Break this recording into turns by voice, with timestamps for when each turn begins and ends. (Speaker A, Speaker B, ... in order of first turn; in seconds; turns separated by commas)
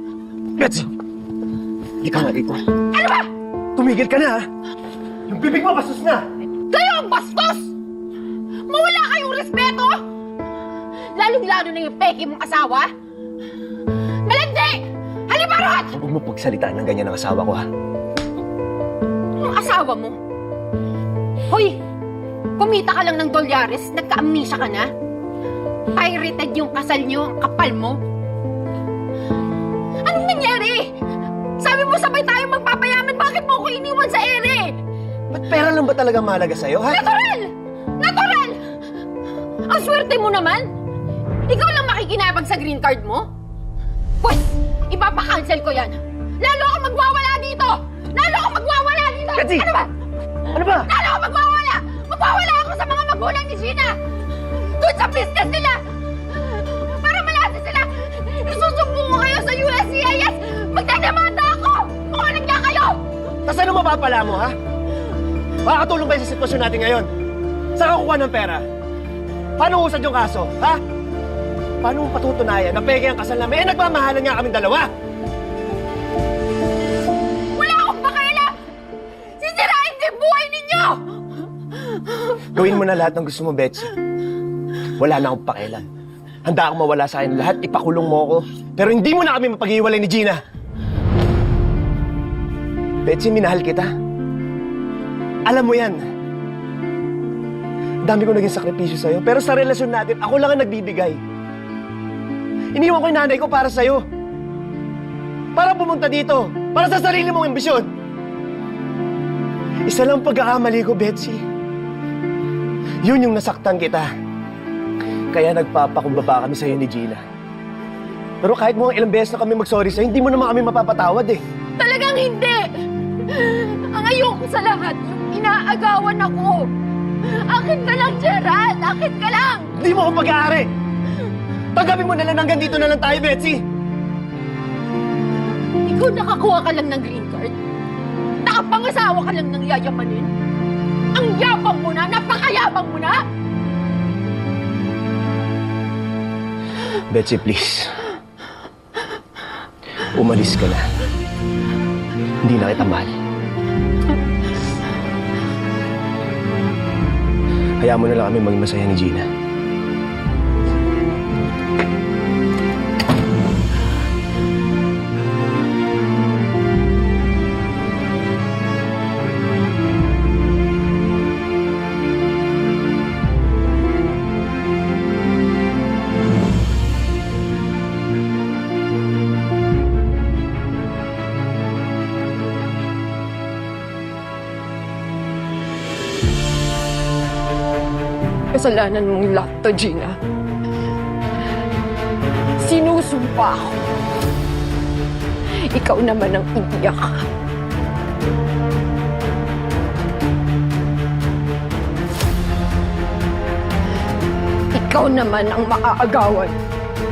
Speaker A: 0.6-0.9, Speaker A: 2.0-2.6, Speaker B: 2.9-3.3, Speaker A: 3.7-4.5, Speaker A: 5.3-6.2, Speaker B: 6.7-7.7, Speaker B: 8.7-10.0, Speaker B: 11.1-12.9, Speaker B: 14.2-16.0, Speaker A: 15.9-17.6, Speaker B: 19.4-20.2, Speaker B: 21.5-21.8, Speaker B: 22.6-24.9, Speaker B: 25.9-28.0, Speaker B: 30.0-30.9, Speaker B: 31.6-34.8, Speaker A: 35.3-37.0, Speaker B: 36.9-38.7, Speaker B: 39.6-40.7, Speaker B: 41.5-43.3, Speaker B: 44.2-49.9, Speaker A: 49.4-49.7, Speaker A: 50.5-50.9, Speaker B: 50.6-63.0, Speaker A: 63.5-64.5, Speaker A: 65.6-67.1, Speaker A: 67.7-68.6, Speaker A: 69.6-70.8, Speaker A: 71.8-74.9, Speaker B: 77.5-78.5, Speaker B: 79.2-82.4, Speaker A: 82.5-83.9, Speaker A: 84.9-85.8, Speaker A: 86.4-90.4, Speaker A: 93.0-93.9, Speaker A: 95.5-96.0, Speaker A: 98.0-101.2, Speaker A: 102.7-104.0, Speaker A: 105.5-107.9, Speaker A: 109.8-111.4, Speaker A: 113.0-114.1, Speaker A: 115.3-117.2, Speaker A: 118.4-121.4, Speaker B: 121.8-126.7, Speaker B: 127.2-129.7, Speaker A: 129.8-130.7, Speaker A: 131.7-133.6, Speaker B: 135.8-137.5, Speaker B: 138.4-140.3, Speaker B: 141.1-143.2, Speaker A: 147.1-148.1, Speaker A: 150.0-150.9, Speaker A: 152.4-153.1, Speaker A: 157.8-159.3, Speaker B: 188.5-190.2, Speaker B: 192.6-193.9, Speaker B: 195.6-197.2, Speaker B: 204.7-206.6